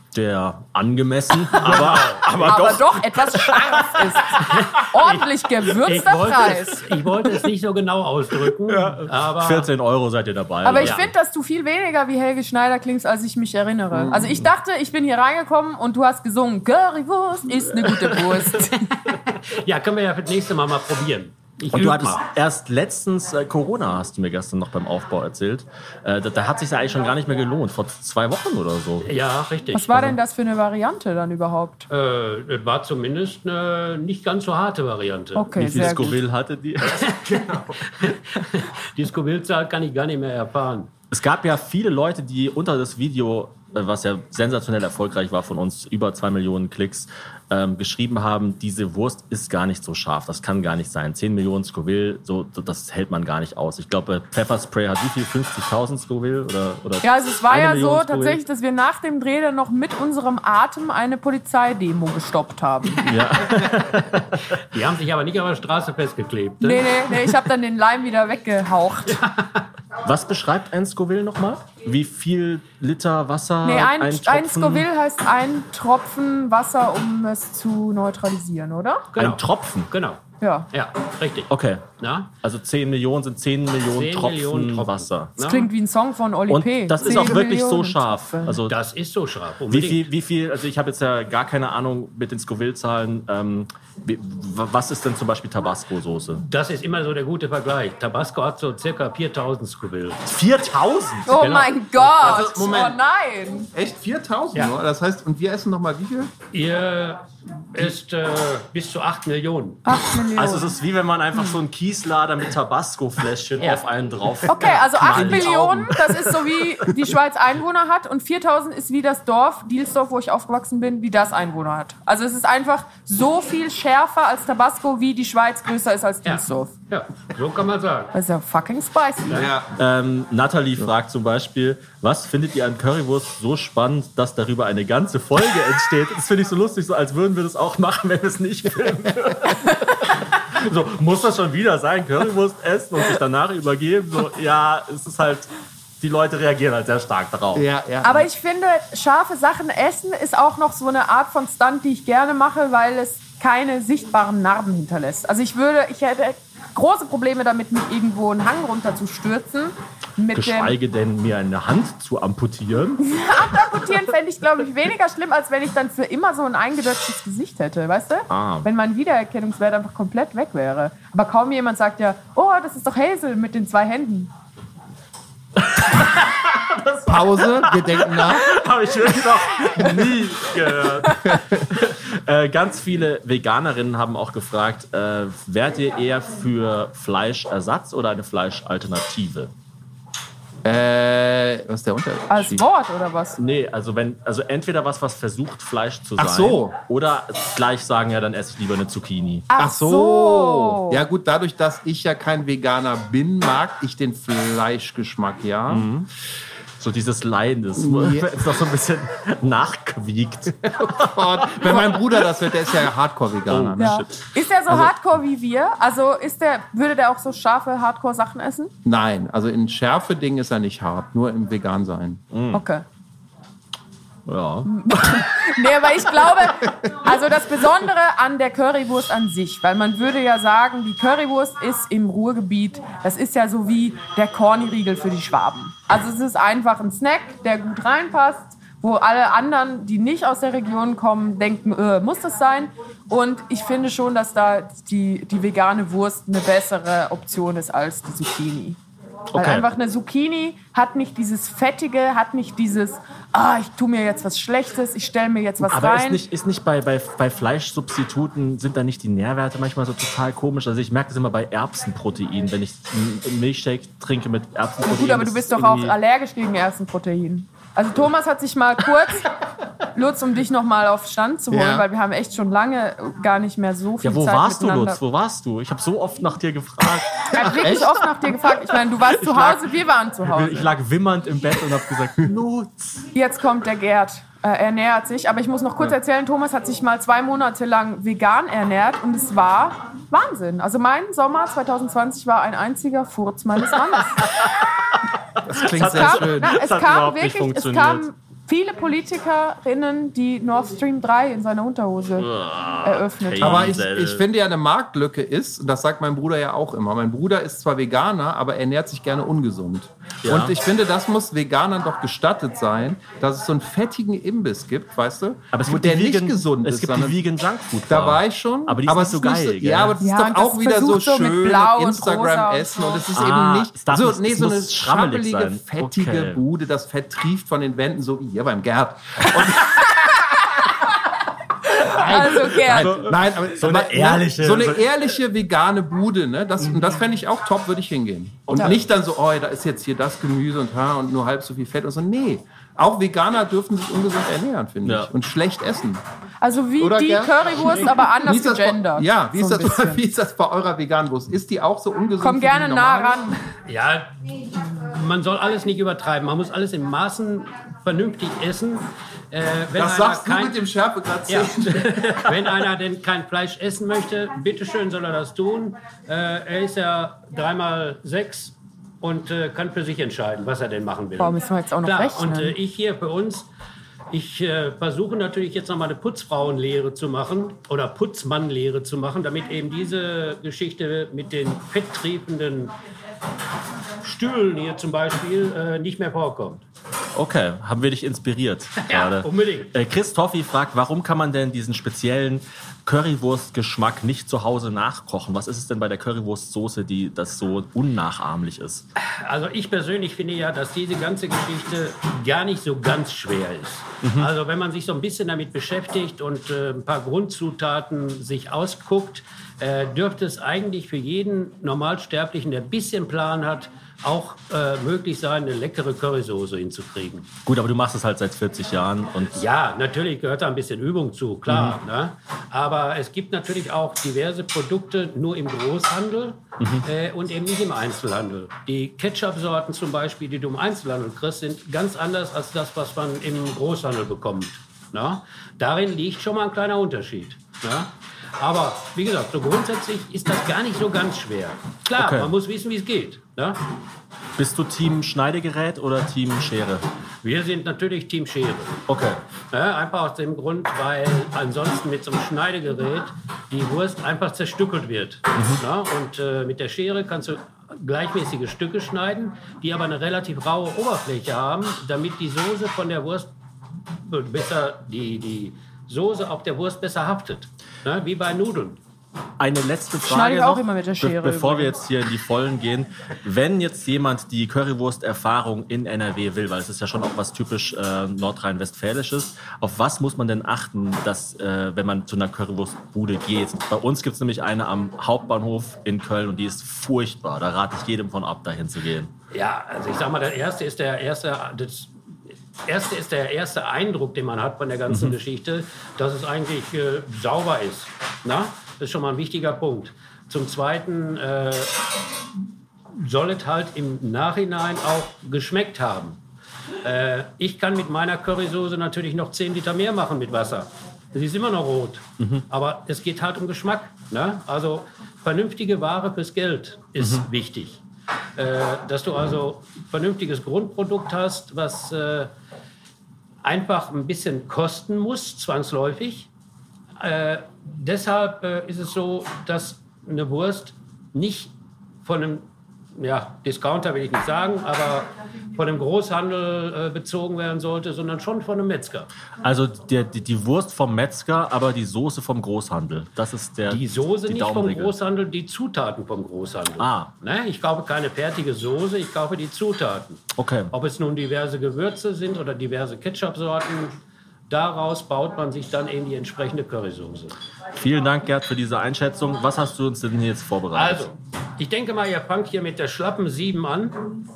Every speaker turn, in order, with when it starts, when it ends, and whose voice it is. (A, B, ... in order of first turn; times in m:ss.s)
0:00.1-0:04.2 A
0:01.6-0:02.4 B
0:02.4-0:06.9 C
0:04.4-0:09.7 B
0:08.7-0:11.1 A
0:10.6-0:19.0 C
0:10.8-0:11.0 B
0:14.0-0:14.5 A
0:19.1-0:22.2 B
0:21.7-0:29.1 A
0:29.0-0:29.9 B
0:29.7-0:31.9 C
0:31.9-0:36.2 B
0:35.4-0:36.2 C
0:35.6-0:37.1 A
0:36.9-0:37.9 D
0:37.1-0:37.4 B
0:38.0-0:40.9 B
0:41.1-0:58.4 A
0:57.0-1:03.1 C
1:03.0-1:04.6 A
1:04.6-1:07.0 B
1:06.6-1:09.2 C
1:09.1-1:09.6 B
1:10.0-1:14.9 A
1:13.6-1:19.1 C
1:19.1-1:22.3 B
1:19.2-1:19.9 A
1:20.4-1:20.7 C
1:21.5-1:21.9 A
1:22.4-1:25.3 A
1:23.9-1:25.7 B
1:25.4-1:28.6 C
1:26.5-1:28.8 A
1:28.7-1:30.1 B
1:29.7-1:36.4 A
1:36.4-1:40.2 B
1:40.2-1:41.7 A
1:41.3-1:43.7 C
1:42.0-1:43.0 D
1:43.7-1:46.3 D
1:46.5-1:49.8 B
1:49.8-1:50.7 C
1:50.4-1:56.6 A
1:54.5-2:06.7 C
1:55.1-1:56.0 D
2:06.2-2:08.1 B
2:08.1-2:09.5 C
2:09.3-2:09.5 B
2:09.3-2:09.7 D
2:09.8-2:25.5 A
2:26.0-2:27.7 A
2:27.5-2:28.3 D
2:28.0-2:40.8 C
2:40.3-2:43.1 A
2:43.0-2:54.3 C
2:48.3-2:48.7 A
2:55.6-3:09.5 A
2:57.1-2:58.6 D
3:01.3-3:01.6 D
3:10.6-3:12.6 D
3:12.3-3:13.4 C
3:13.4-3:19.5 A
3:16.2-3:16.8 D
3:19.5-3:21.0 C
3:19.6-3:25.9 D
3:25.7-3:26.1 A
3:26.8-3:32.0 A
3:27.8-3:28.4 D
3:30.7-3:34.0 D
3:33.5-3:34.2 A
3:33.8-3:38.7 C
3:38.8-3:42.2 D
3:42.3-3:42.6 A
3:42.5-3:42.8 C
3:44.3-3:44.7 A
3:44.7-4:08.8 C
4:09.3-4:09.7 A
4:09.4-4:16.2 C
4:15.6-4:26.0 A
4:24.8-4:35.0 C
4:31.5-4:31.9 D
4:34.0-4:37.9 A
4:37.3-4:40.7 C
4:37.4-4:38.0 D
4:39.0-4:39.7 A
4:40.2-4:43.1 A
4:43.1-4:54.4 C
4:54.3-4:58.1 A
4:55.5-4:56.6 D
4:55.8-5:02.3 C
5:02.2-5:04.2 A
5:02.8-5:03.7 C
5:03.4-5:17.2 D
5:10.2-5:10.6 A
5:15.5-5:20.0 A
5:17.9-5:29.9 D
5:20.0-5:23.1 C
5:23.1-5:26.4 A
5:31.8-5:46.0 D
5:31.9-5:33.0 C
5:31.9-5:35.1 A
5:44.8-5:45.1 A
5:46.4-5:50.0 C
5:46.8-5:53.4 D
5:52.2-5:53.4 C
5:53.7-6:00.6 B
5:59.8-6:02.3 D
6:01.3-6:13.5 B
6:11.2-6:12.6 C
6:14.1-6:22.7 B
6:24.0-6:26.6 B
6:27.2-6:38.8 A
6:28.8-6:29.7 B
6:39.0-6:57.3 B
6:44.0-6:44.3 A
6:57.5-6:59.4 A
6:59.4-7:23.6 B
7:01.5-7:01.8 A
7:06.6-7:06.8 A
7:22.0-7:22.3 A
7:24.4-7:26.8 A
7:27.2-7:28.8 B
7:28.9-7:29.2 A
7:29.5-7:43.3 B
7:35.4-7:35.6 A
7:44.0-7:48.8 B
7:49.4-8:09.1 A
7:50.0-7:51.7 C
8:09.3-8:11.9 B
8:12.7-8:21.8 B
8:14.9-8:15.2 A
8:22.9-8:26.2 B
8:26.8-8:37.8 B
8:32.2-8:32.4 A
8:37.0-8:37.2 A
8:38.4-8:42.3 B
8:43.4-8:46.3 B
8:47.0-8:51.5 B
8:52.0-8:52.4 B
8:53.0-8:59.1 B
8:59.4-9:04.9 A
9:03.7-9:14.0 B
9:06.8-9:07.1 A
9:10.4-9:10.7 A
9:14.5-9:17.4 B
9:17.8-9:21.1 A
9:20.7-9:24.0 B